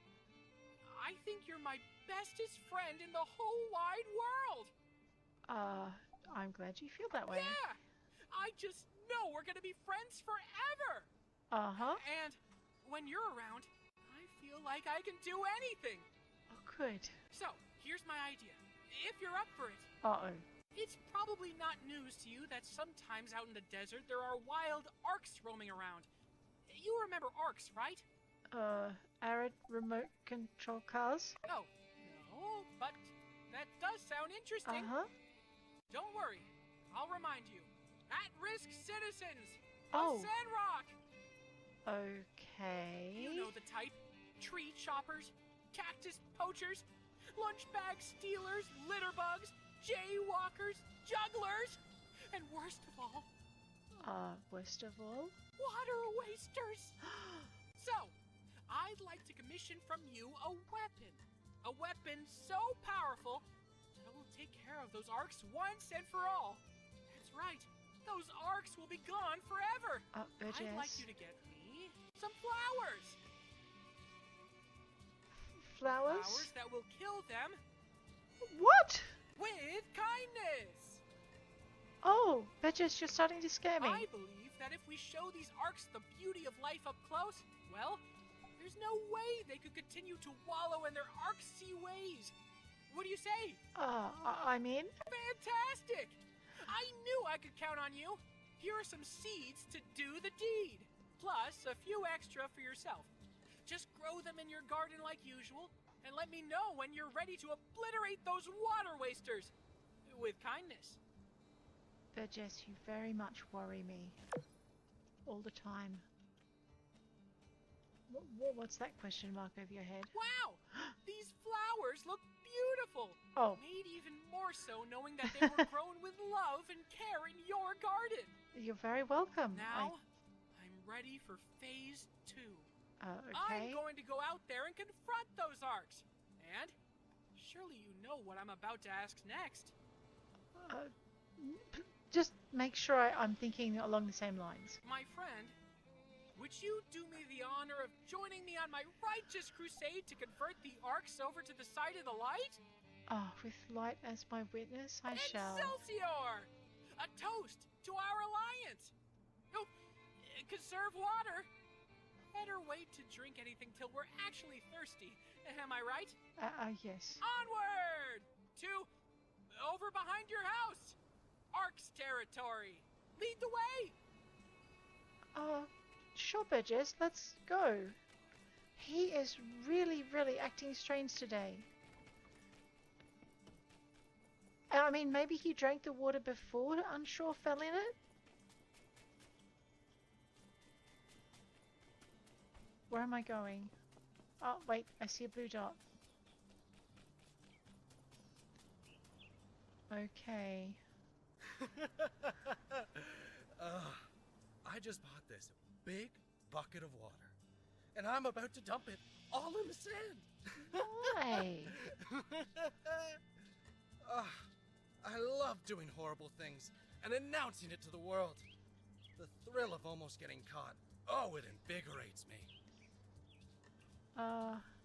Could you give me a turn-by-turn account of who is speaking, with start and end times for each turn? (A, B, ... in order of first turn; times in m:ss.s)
0:00.8-0:04.7 A
0:05.5-0:07.6 B
0:07.3-0:07.8 A
0:08.3-0:11.1 A
0:11.5-0:12.0 B
0:11.8-0:16.1 A
0:16.5-0:17.2 B
0:17.3-0:19.9 A
0:20.0-0:20.4 B
0:20.7-0:26.1 A
0:26.7-0:28.0 A
0:28.5-0:31.4 B
0:31.5-0:34.9 A
0:34.6-0:35.1 B
0:35.9-0:40.9 A
0:39.9-0:40.3 B
0:41.8-0:43.5 B
0:43.1-0:51.8 A
0:52.3-0:53.3 A
0:54.0-0:55.3 B
0:55.6-0:57.0 A
0:57.1-0:57.4 B
0:57.7-0:58.2 A
0:58.7-1:13.2 A
1:10.1-1:11.0 B
1:15.4-1:16.5 B
1:16.0-1:17.6 A
1:18.4-1:19.2 B
1:19.4-1:21.0 A
1:22.0-1:24.1 B
1:23.8-1:28.0 A
1:28.6-1:32.3 A
1:32.9-1:33.6 A
1:33.7-1:34.9 B
1:35.0-1:43.1 A
1:43.6-1:49.5 A
1:50.0-1:51.0 A
1:52.1-1:54.2 B
1:55.2-1:56.0 B
1:58.1-2:00.1 B
2:00.1-2:08.4 A
2:03.3-2:03.6 B
2:05.2-2:05.6 B
2:08.5-2:09.9 B
2:09.5-2:10.0 A
2:10.5-2:12.7 A
2:13.0-2:13.8 B
2:13.3-2:16.7 A
2:17.3-2:19.7 A
2:20.5-2:24.8 B
2:24.8-2:25.6 A
2:26.3-2:32.6 A
2:33.1-2:35.8 B
2:35.1-2:38.9 A
2:39.5-2:41.5 A
2:42.3-2:46.2 A
2:46.4-2:47.2 B
2:47.2-2:48.9 A
2:49.5-2:51.0 A
2:51.5-2:54.0 A
2:55.3-2:58.0 B
2:58.8-3:01.7 B
3:04.7-3:08.0 B
3:12.9-3:13.7 B
3:14.4-3:15.8 B
3:19.9-3:20.8 B
3:21.6-3:24.0 C
3:24.6-3:27.3 C
3:27.9-3:33.2 C
3:30.7-3:31.9 B
3:34.0-3:34.5 C
3:35.0-3:38.4 C
3:39.2-3:42.5 C
3:44.1-3:44.6 B